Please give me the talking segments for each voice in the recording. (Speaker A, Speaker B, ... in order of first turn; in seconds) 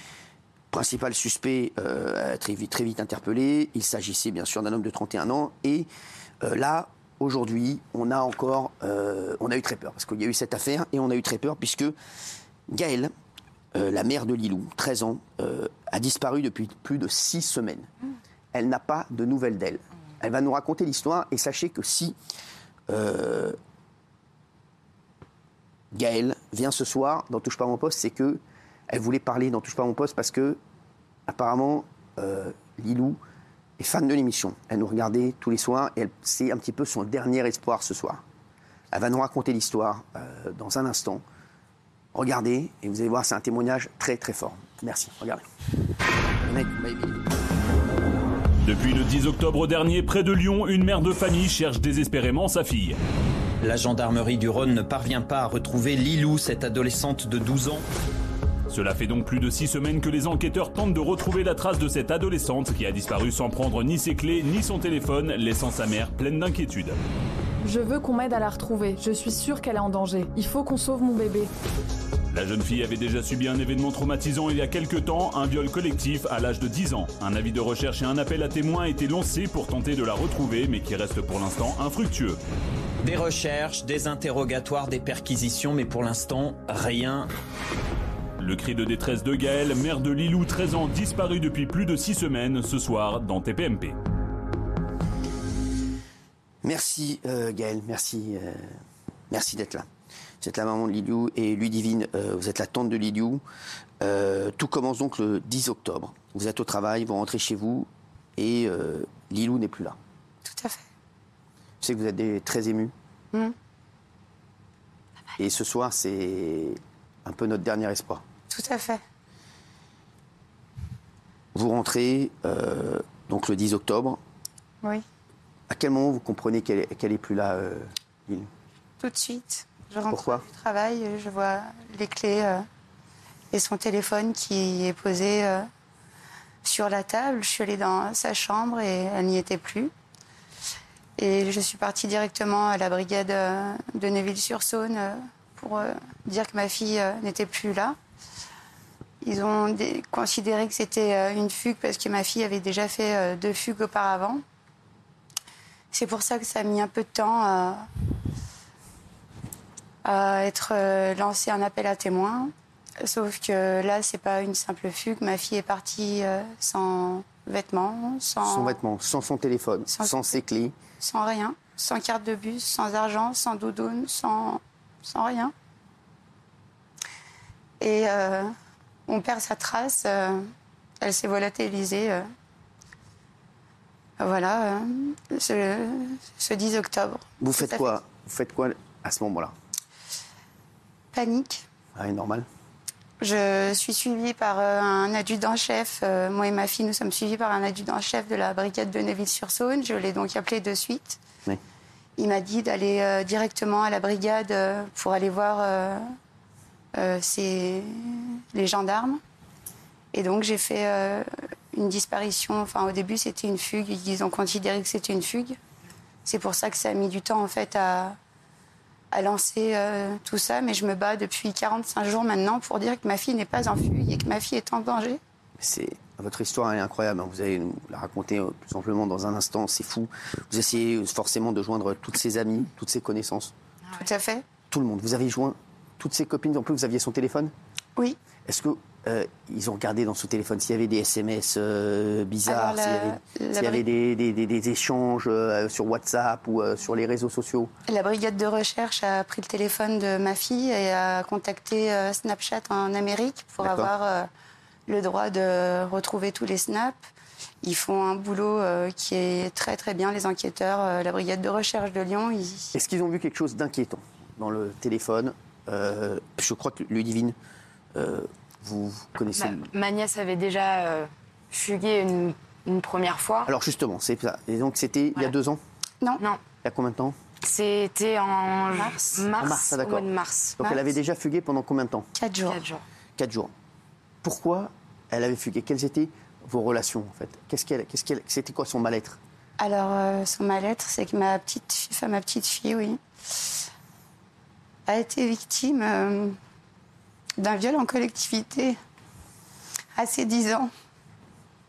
Speaker A: 0.7-5.9, 6.4-11.9, 12.7-13.1, 13.7-17.9, 18.5-22.1, 22.9-23.6, 25.9-30.6, 31.3-33.2, 33.8-38.2, 38.9-41.2, 42.1-45.4, 46.4-47.3, 96.6-98.7, 99.3-99.9, 100.4-103.4, 104.0-110.0, 111.8-112.9, 115.4-118.2, 121.5-124.2, 125.7-128.5, 130.1-130.4, 168.4-170.7, 187.4-189.5, 191.9-192.4, 225.6-233.5, 234.7-237.5, 238.5-247.7, 253.6-253.9, 262.7-267.4, 267.9-269.7, 273.5-275.6, 276.6-277.1, 279.3-282.1, 283.2-283.5, 284.2-289.2
Speaker B: 48.6-53.0, 58.7-67.0, 72.3-82.4, 88.4-94.0
Speaker C: 53.6-57.9, 83.0-87.3
Speaker D: 67.6-71.5
Speaker E: 110.4-110.8, 118.5-119.0, 129.0-132.6, 133.5-135.7, 136.6-139.9, 141.2-148.0, 149.2-154.4, 155.9-157.9, 160.0-168.8, 169.9-170.2, 171.0-175.5, 177.8-178.5, 179.1-180.5, 181.0-182.3, 184.2-187.9, 191.1-191.7, 193.2-201.2, 202.2-206.0, 206.9-209.2, 210.1-215.6, 216.2-218.2, 219.1-225.2, 234.0-234.4, 242.4-243.8, 247.9-254.3, 254.9-257.0, 257.6-262.8, 278.7-279.1, 280.6-280.9, 282.1-282.6, 289.6-293.5, 294.9-296.4, 297.4-298.8, 299.9-300.7
Speaker F: 269.4-273.5, 277.4-280.6, 282.5-282.8